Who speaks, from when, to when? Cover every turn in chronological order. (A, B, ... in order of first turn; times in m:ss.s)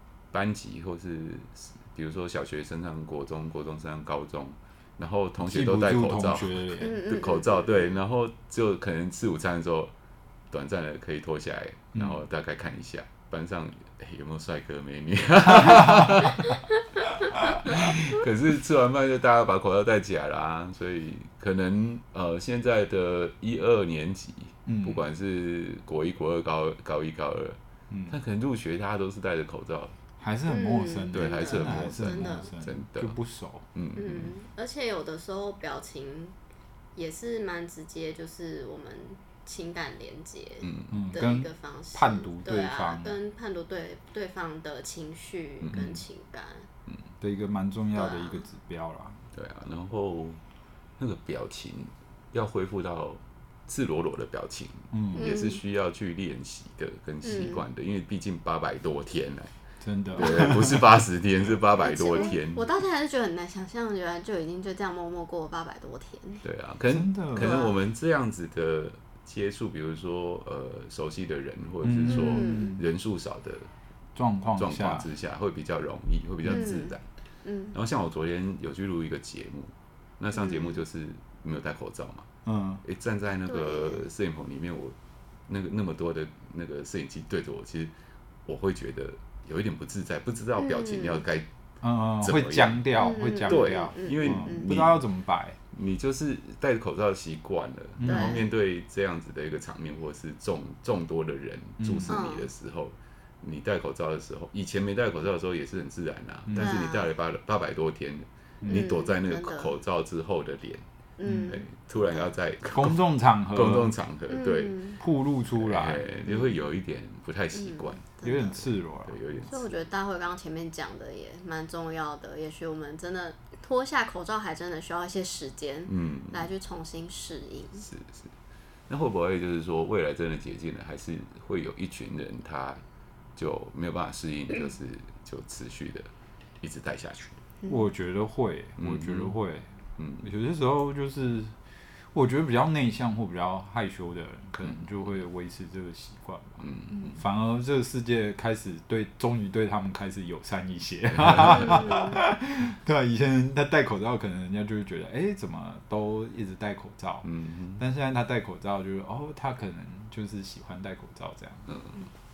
0:00.3-0:09.9 A
0:05.4-0:07.0 B
0:06.8-0:07.6 C
0:10.5-0:16.6 A
0:17.3-0:30.0 A
0:24.7-0:25.0 B
0:30.2-0:33.7 B
0:30.5-0:32.5 C
0:31.1-0:33.2 A
0:33.7-0:34.3 A
0:34.0-0:36.4 C
0:37.0-0:46.7 C
0:40.6-0:41.0 A
0:40.9-0:43.2 B
0:45.6-0:46.0 A
0:47.2-0:49.2 B
0:48.0-0:48.4 C
0:49.3-0:50.4 A
0:51.0-0:59.5 A
0:54.9-0:55.2 B
0:55.2-0:55.6 C
0:57.2-0:57.6 C
0:59.8-1:00.9 B
1:00.1-1:02.7 A
1:00.2-1:00.5 C
1:01.8-1:06.4 C
1:06.4-1:13.7 A
1:06.9-1:07.6 B
1:07.4-1:07.7 C
1:11.8-1:12.8 B
1:12.1-1:12.8 C
1:14.2-1:15.1 B
1:14.6-1:17.1 A
1:16.5-1:17.7 C
1:17.7-1:22.3 A
1:20.4-1:20.8 C
1:22.5-1:22.8 B
1:22.8-1:25.0 A
1:23.5-1:24.0 C
1:25.5-1:27.9 A
1:28.5-1:31.5 A
1:30.6-1:31.2 C
1:31.8-1:35.6 B
1:32.2-1:32.8 A
1:33.0-1:34.7 C
1:33.4-1:35.0 A
1:35.7-1:53.0 A
1:38.0-1:38.4 B
1:38.0-1:38.4 C
1:41.8-1:42.1 B
1:42.1-1:42.5 C
1:46.6-1:47.1 C
1:48.7-1:49.7 C
1:51.2-1:51.6 C
1:52.7-1:53.9 B
1:53.5-1:54.8 A
1:54.3-1:55.0 C
1:55.0-1:56.1 B
1:55.6-1:58.1 A
1:57.6-1:58.6 C
1:58.2-1:59.2 B
1:59.1-1:59.7 A
1:59.4-2:07.9 C
2:05.9-2:06.5 A
2:07.8-2:08.3 A
2:08.9-2:12.8 A
2:13.4-2:16.1 A
2:16.6-2:17.4 A
2:17.7-2:19.7 B
2:18.8-2:19.3 A
2:20.0-2:20.3 A
2:20.2-2:21.5 B
2:22.1-2:37.3 B
2:26.6-2:27.2 A
2:31.2-2:31.6 A
2:37.2-2:37.8 A
2:37.8-2:41.7 B
2:41.7-2:42.0 A